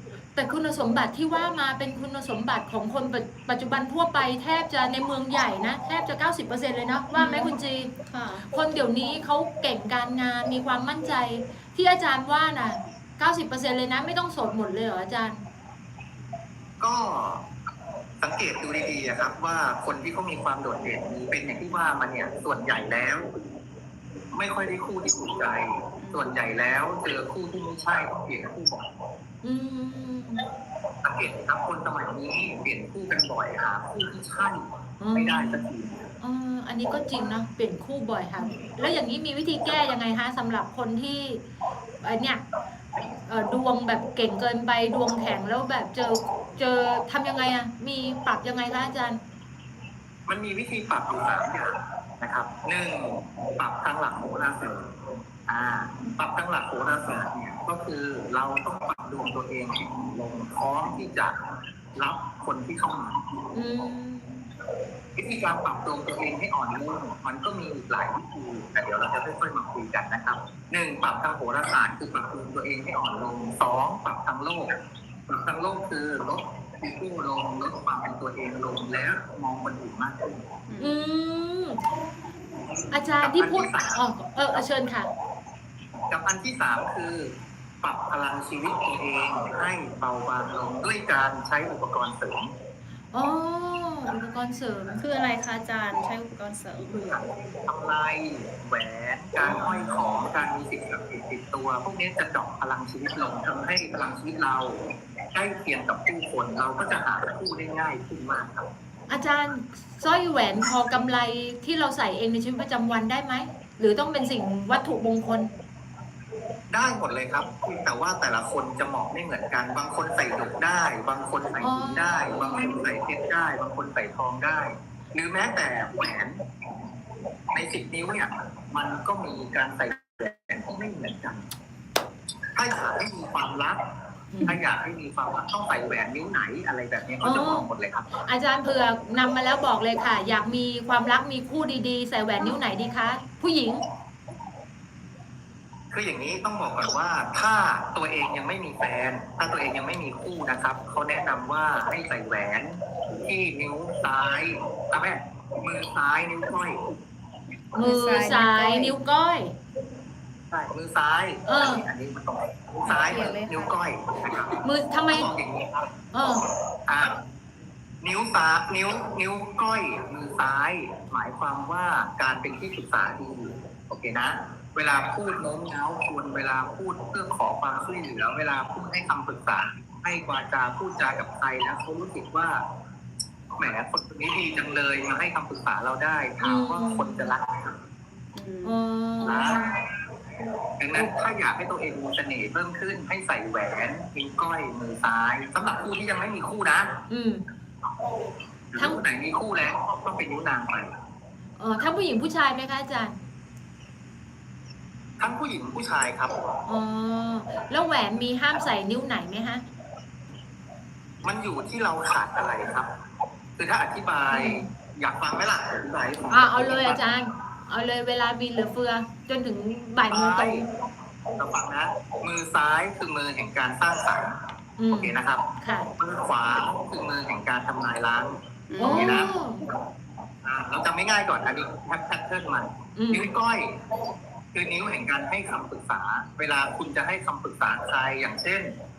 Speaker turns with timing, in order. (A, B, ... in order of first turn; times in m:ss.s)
0:00.4-0:07.9 A
0:07.1-0:08.5 B
0:08.5-0:15.4 A
0:16.8-0:17.5 C
0:18.2-0:23.3 C
0:24.3-0:28.9 C
0:26.0-0:26.3 B
0:29.4-0:30.4 A
0:31.0-0:36.1 C
0:35.0-0:35.7 A
0:36.2-0:41.4 A
0:42.0-0:42.4 A
0:43.3-0:49.2 A
0:50.3-1:01.4 C
1:02.0-1:03.4 C
1:03.5-1:04.4 A
1:05.2-1:14.7 C
1:15.3-1:20.5 C
1:20.7-1:21.0 B
1:20.8-1:21.8 A
1:22.9-1:25.1 A
1:23.2-1:24.7 C
1:26.1-1:32.5 C
1:33.1-1:35.0 A
1:35.0-1:37.0 B
1:36.8-1:44.8 C
1:45.3-1:48.7 C
1:49.1-1:55.5 A
1:56.7-2:06.4 C
2:01.6-2:02.4 A
2:07.5-2:11.5 C
2:12.6-2:13.8 C
2:14.3-2:14.6 A
2:14.4-2:18.1 C
2:17.2-2:23.8 A
2:25.9-2:36.8 C
2:37.8-2:39.6 A
2:37.8-2:39.0 B
2:40.5-2:46.3 C
2:41.5-2:41.8 A
2:42.8-2:43.8 B
2:44.6-2:45.3 A
2:46.1-2:46.5 A
2:46.9-2:47.2 C
2:48.0-3:02.6 C
3:03.6-3:07.8 C
3:06.4-3:07.3 A
3:08.4-3:08.8 B
3:08.6-3:09.6 A
3:09.2-3:09.8 C
3:10.8-3:17.0 C
3:17.1-3:17.4 A
3:18.7-3:20.9 C
3:18.8-3:19.0 A
3:21.6-3:23.2 A
3:25.2-3:26.4 C
3:26.7-3:29.6 A
3:31.2-3:32.9 C
3:33.6-3:37.0 C
3:34.3-3:34.7 A
3:36.3-3:40.6 A
3:40.1-3:40.6 C
3:41.3-3:44.4 C
3:44.8-3:45.9 A
3:44.9-3:45.4 C
3:46.0-3:49.8 C
3:48.7-3:49.2 B
3:48.8-3:49.6 A
3:50.4-3:53.7 C
3:53.0-3:53.3 A
3:54.5-3:58.7 C